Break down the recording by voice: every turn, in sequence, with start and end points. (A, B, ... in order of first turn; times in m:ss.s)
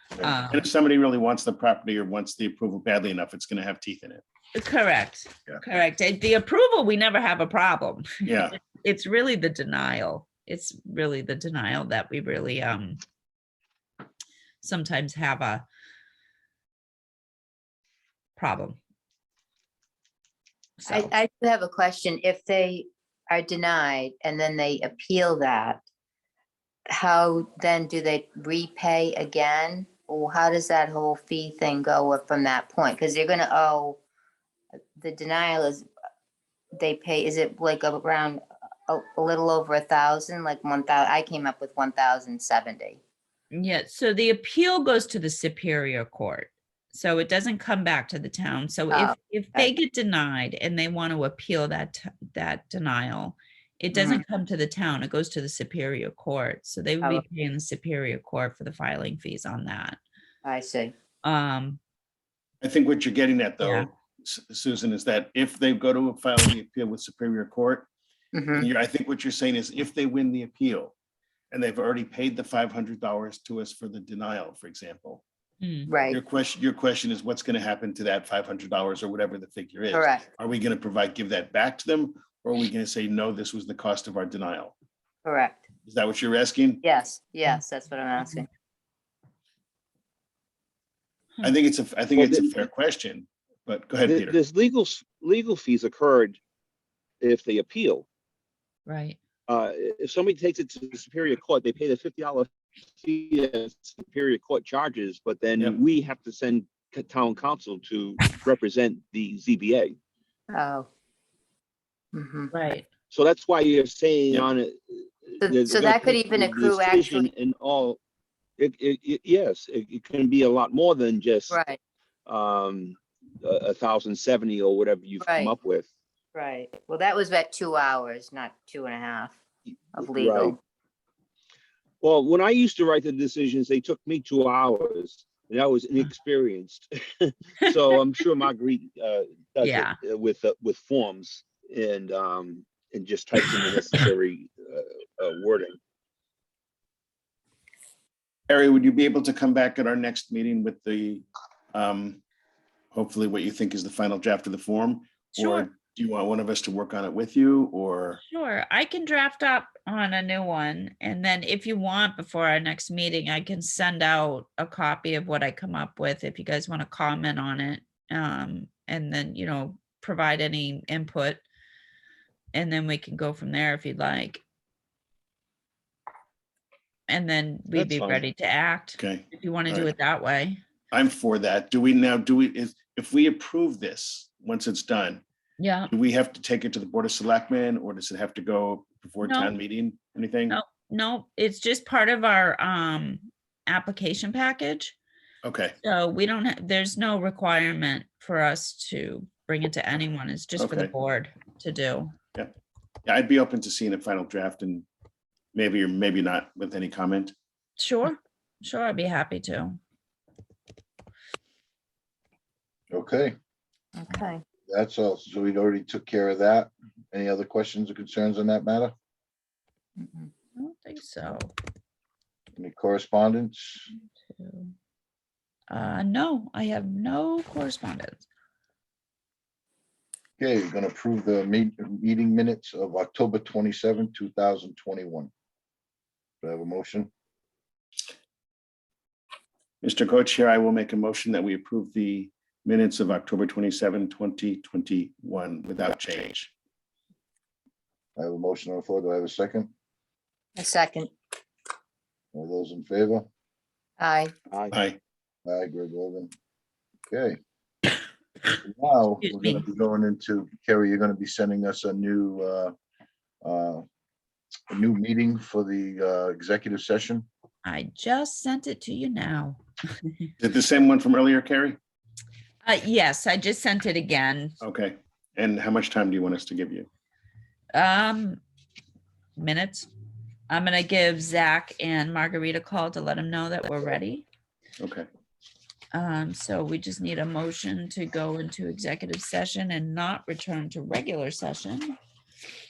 0:00.2-0:04.2 A
0:00.2-0:00.7 B
0:04.6-0:13.0 B
0:08.2-0:08.6 A
0:14.6-0:15.6 B
0:18.4-0:18.8 B
0:20.8-0:21.1 B
0:20.9-0:25.8 C
0:26.9-0:34.0 C
0:35.0-0:35.9 C
0:36.8-0:43.0 C
0:43.5-1:00.0 B
0:48.9-0:49.7 C
0:53.9-0:54.2 C
1:00.4-1:00.9 C
1:01.2-1:01.8 B
1:02.6-1:07.9 A
1:03.6-1:03.9 B
1:08.3-1:08.7 C
1:08.6-1:11.0 A
1:11.5-1:15.2 A
1:15.6-1:15.9 B
1:15.9-1:16.2 C
1:16.1-1:24.8 A
1:19.9-1:20.2 C
1:25.2-1:25.6 C
1:25.9-1:26.8 A
1:26.8-1:28.5 C
1:31.4-1:34.4 A
1:32.2-1:32.6 D
1:34.1-1:36.4 D
1:37.2-1:38.1 D
1:38.9-1:39.2 B
1:39.5-1:50.0 D
1:50.5-1:50.9 C
1:52.1-1:52.5 C
1:52.5-1:52.9 B
1:53.1-1:58.0 D
1:55.4-1:57.3 C
1:58.6-2:01.6 D
2:01.5-2:01.8 C
2:02.3-2:05.9 D
2:05.2-2:05.5 C
2:06.3-2:09.4 C
2:10.0-2:10.6 C
2:10.0-2:10.6 D
2:12.0-2:25.8 D
2:19.6-2:20.0 B
2:28.5-2:32.2 A
2:32.9-2:38.2 A
2:35.4-2:35.7 B
2:38.2-2:51.4 B
2:52.5-2:54.4 B
2:57.1-3:00.6 B
2:57.8-2:58.2 A
2:59.0-2:59.9 A
3:00.9-3:05.2 A
3:05.6-3:05.9 B
3:05.9-3:10.6 A
3:09.2-3:09.6 B
3:10.5-3:15.0 B
3:15.4-3:15.8 A
3:15.8-3:22.1 B
3:20.6-3:20.9 A
3:23.1-3:24.9 A
3:25.5-3:27.3 A
3:27.8-3:29.8 B
3:32.9-3:33.4 E
3:34.0-3:34.4 C
3:34.7-3:38.9 E
3:40.0-3:40.3 C
3:40.6-3:41.5 B
3:42.6-3:43.9 E
3:44.3-3:44.7 B
3:45.7-3:48.3 B
3:50.4-3:55.3 E
3:56.4-3:57.1 E
3:59.8-4:06.5 A
4:08.2-4:09.7 E
4:10.6-4:11.1 C
4:12.3-4:13.3 E
4:14.0-4:14.3 C
4:14.5-4:14.8 D
4:14.7-4:15.0 A
4:15.4-4:16.3 E
4:17.1-4:17.4 E
4:18.6-4:22.7 E
4:19.2-4:19.6 B
4:23.4-4:23.8 E
4:24.7-4:27.3 E
4:27.6-4:30.3 B
4:30.4-4:31.8 A
4:32.6-4:34.6 B
4:34.6-4:36.9 A
4:37.7-4:38.4 B
4:39.4-4:39.9 B
4:40.5-4:44.3 B
4:44.8-4:45.1 A
4:45.9-4:52.0 B